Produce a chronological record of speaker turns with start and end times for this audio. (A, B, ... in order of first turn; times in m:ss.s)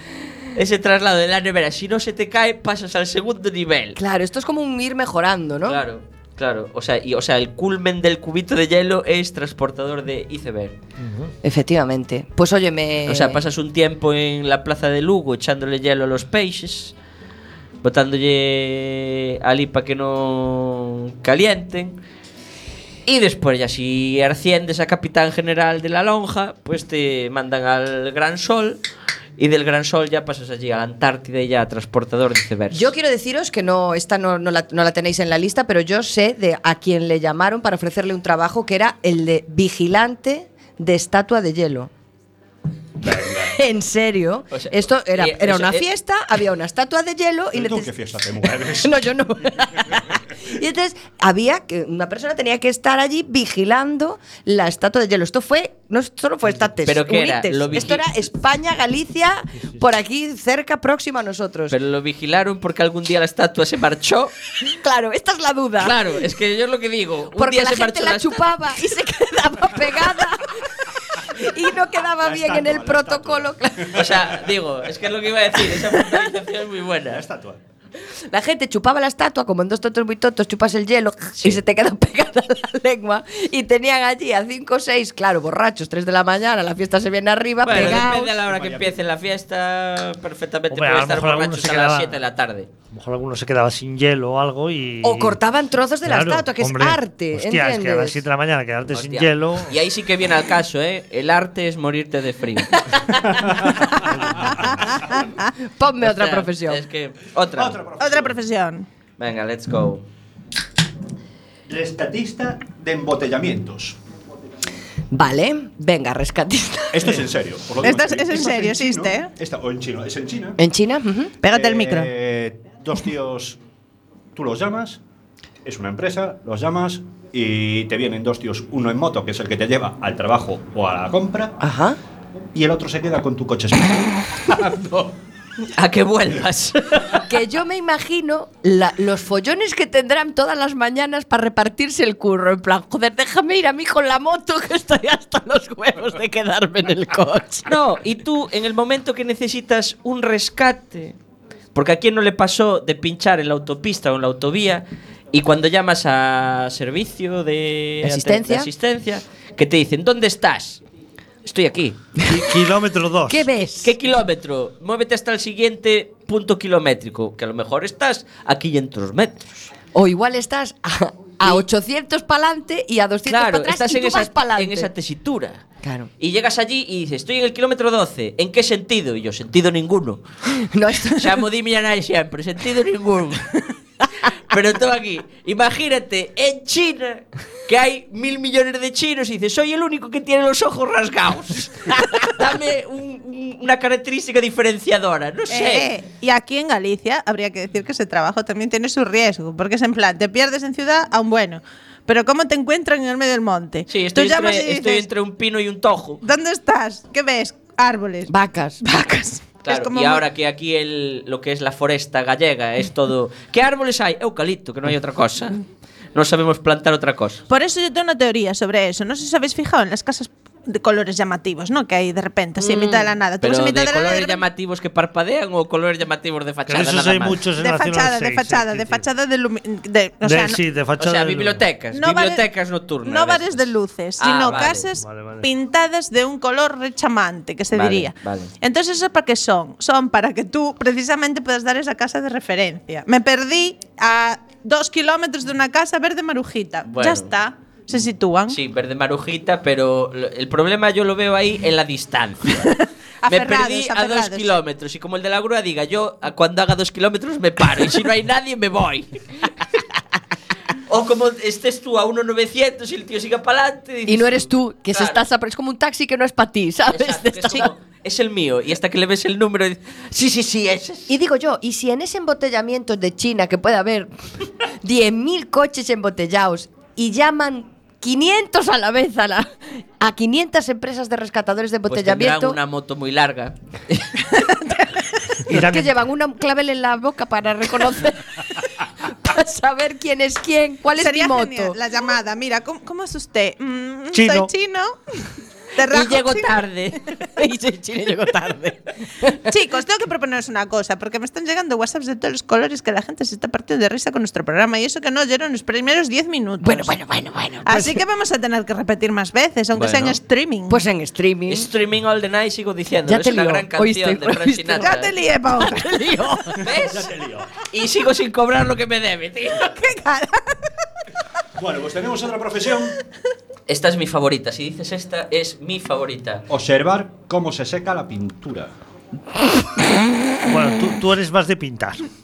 0:00.5-0:04.0 A
0:04.0-0:05.8 B
0:05.6-0:10.8 A
0:11.0-0:11.3 C
0:11.4-0:13.4 B
0:13.1-0:16.9 A
0:17.8-0:22.0 A
0:23.1-0:28.8 A
0:29.4-0:32.9 A
0:32.7-0:41.9 B
0:43.0-0:43.6 D
0:43.4-0:47.9 B
0:44.5-0:45.9 A
0:47.5-0:49.1 D
0:48.4-1:01.7 B
0:56.8-0:58.0 A
1:01.7-1:04.3 A
1:04.7-1:06.1 B
1:05.8-1:08.4 A
1:07.3-1:14.1 B
1:12.0-1:14.6 D
1:13.9-1:17.2 A
1:17.1-1:17.6 D
1:18.3-1:28.4 B
1:27.6-1:32.7 A
1:27.7-1:28.9 D
1:30.7-1:32.2 C
1:32.9-1:35.4 C
1:35.0-1:38.2 B
1:36.0-1:39.8 C
1:38.9-1:42.8 A
1:44.0-1:44.8 C
1:45.2-1:45.5 E
1:45.6-1:46.8 B
1:46.0-1:47.8 A
1:47.5-1:48.4 D
1:48.0-1:48.9 E
1:49.2-1:50.0 A
1:51.7-1:54.0 D
1:55.1-1:57.2 B
1:56.9-2:00.6 D
1:57.8-1:59.3 E
2:00.6-2:01.3 B
2:01.4-2:02.1 E
2:01.4-2:03.6 D
2:04.3-2:05.0 D
2:05.6-2:11.5 D
2:11.6-2:12.0 B
2:12.5-2:15.1 D
2:15.8-2:17.2 A
2:17.2-2:27.7 B
2:27.7-2:31.2 A
2:31.7-2:40.8 A
2:38.0-2:38.7 B
2:41.4-2:42.0 A
2:42.3-2:43.4 C
2:43.3-2:43.9 B
2:43.8-2:49.5 A
2:49.9-2:54.9 B
2:53.3-2:55.6 A
2:55.8-2:56.1 B
2:56.2-3:00.2 A
3:00.5-3:01.3 B
3:01.1-3:03.5 A
3:04.4-3:15.9 A
3:15.5-3:25.1 E
3:23.9-3:26.2 A
3:26.2-3:28.3 E
3:28.3-3:28.8 B
3:28.8-3:30.2 E
3:29.6-3:35.6 A
3:36.1-3:37.4 A
3:37.5-3:44.4 E
3:42.6-3:43.1 B
3:43.4-3:47.4 A
3:46.7-3:49.0 C
3:47.6-3:50.6 E
3:50.2-3:51.6 C
3:51.0-3:54.9 A
3:51.9-3:52.4 E
3:53.0-4:08.6 E
3:55.0-3:55.5 C
3:57.7-3:58.5 A
4:06.8-4:07.3 A
4:08.5-4:12.7 A
4:12.6-4:14.5 E
4:13.3-4:19.2 A
4:20.9-4:25.2 A
4:24.1-4:27.7 B
4:26.9-4:31.1 A
4:31.1-4:34.1 B
4:34.8-4:42.6 B
4:41.9-4:44.1 A
4:44.4-4:45.1 E
4:45.5-4:45.9 C
4:45.5-4:51.8 B
4:51.0-4:55.2 E
4:54.1-4:54.5 C
4:55.8-4:56.6 E
4:55.9-4:57.0 A
4:57.3-4:59.5 B
4:59.5-5:07.0 E
5:06.6-5:08.0 B
5:07.6-5:10.8 E
5:09.7-5:10.2 A
5:10.7-5:11.7 B
5:11.5-5:15.1 A
5:13.0-5:15.0 B
5:14.8-5:15.9 E
5:15.5-5:16.6 B
5:16.6-5:17.1 A
5:16.7-5:17.5 D
5:17.7-5:19.7 A
5:19.6-5:20.6 E
5:21.6-5:23.0 D
5:23.7-5:26.4 A
5:26.5-5:28.7 D
5:30.5-5:32.0 C